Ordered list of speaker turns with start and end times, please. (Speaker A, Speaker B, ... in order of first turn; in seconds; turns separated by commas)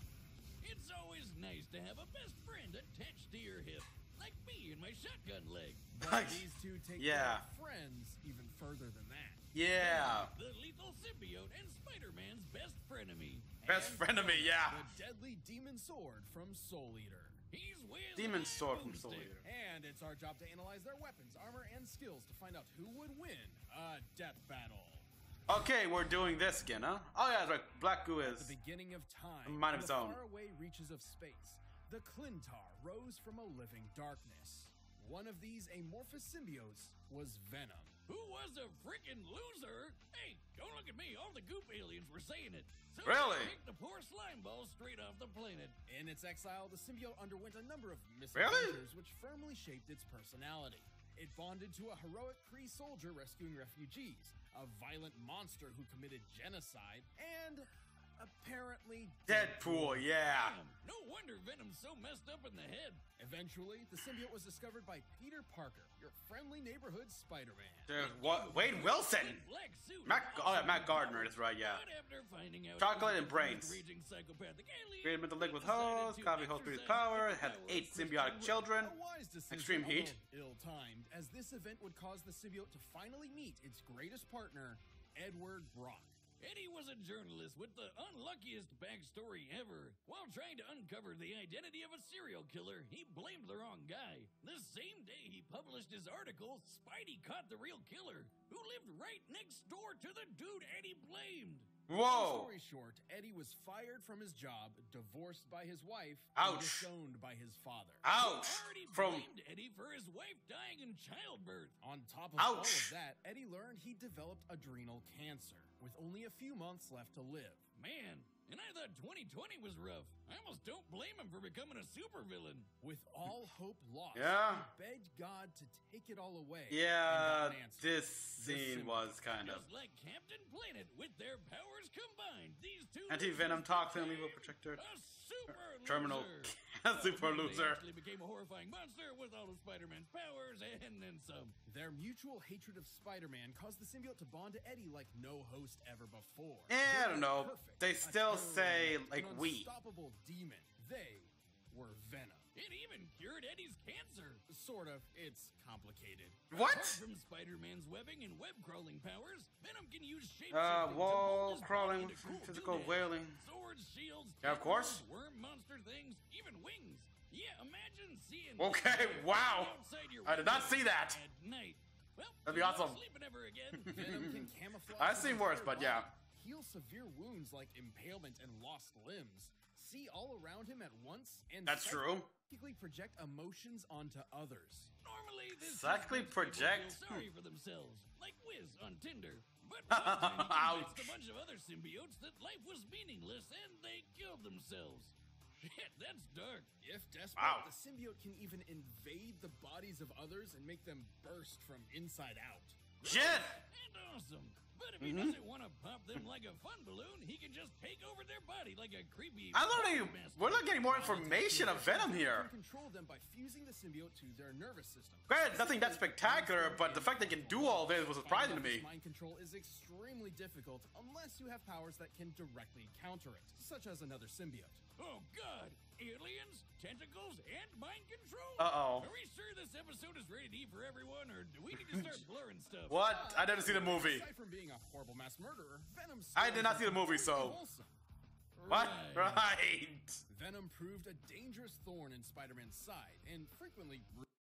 Speaker A: 0.6-5.9, Speaker B: 5.9-9.5, Speaker C: 6.0-6.4, Speaker C: 7.0-7.4, Speaker C: 9.5-10.3, Speaker A: 9.8-13.6, Speaker B: 13.6-17.4, Speaker C: 13.7-14.8, Speaker A: 17.5-19.3, Speaker C: 18.2-19.4, Speaker B: 19.4-25.1, Speaker C: 25.5-28.5, Speaker B: 28.2-38.0, Speaker C: 29.5-30.2, Speaker A: 38.1-45.8, Speaker C: 43.0-43.5, Speaker B: 45.9-60.1, Speaker C: 48.4-48.8, Speaker C: 59.3-60.6, Speaker A: 60.3-63.0, Speaker B: 63.2-67.9, Speaker C: 67.9-69.4, Speaker A: 68.0-78.6, Speaker C: 70.0-71.8, Speaker C: 72.8-73.8, Speaker C: 75.0-78.9, Speaker B: 78.6-86.2, Speaker C: 79.5-80.2, Speaker A: 86.4-101.7, Speaker C: 101.9-102.5, Speaker B: 101.9-108.0, Speaker C: 106.3-106.9, Speaker C: 108.0-109.3, Speaker A: 108.1-111.8, Speaker B: 111.8-117.6, Speaker C: 112.4-112.9, Speaker A: 117.8-122.7, Speaker B: 122.8-129.1, Speaker C: 124.1-124.7, Speaker C: 126.7-129.6, Speaker A: 129.4-141.6, Speaker C: 133.1-134.8, Speaker C: 135.8-137.8, Speaker B: 141.7-152.5, Speaker C: 146.7-149.7, Speaker A: 152.6-154.4, Speaker B: 154.5-156.5, Speaker C: 156.5-157.0, Speaker A: 156.5-174.1, Speaker C: 160.5-163.4, Speaker C: 164.4-165.0, Speaker C: 168.6-171.2, Speaker C: 172.5-173.0, Speaker B: 173.9-184.9, Speaker C: 173.9-176.1, Speaker C: 181.7-182.3, Speaker A: 185.0-196.7, Speaker C: 185.6-187.3, Speaker C: 189.9-191.2, Speaker B: 196.8-202.9, Speaker C: 197.4-197.7, Speaker A: 203.0-210.8, Speaker C: 203.0-203.6, Speaker C: 205.0-205.4, Speaker C: 209.5-212.5, Speaker B: 210.9-224.8, Speaker C: 215.3-218.9, Speaker A: 225.0-233.0, Speaker C: 228.6-229.1, Speaker C: 231.9-232.2, Speaker C: 232.9-234.3, Speaker B: 233.0-238.0, Speaker C: 236.3-237.6, Speaker A: 238.6-239.4, Speaker C: 238.7-240.2, Speaker B: 240.3-244.3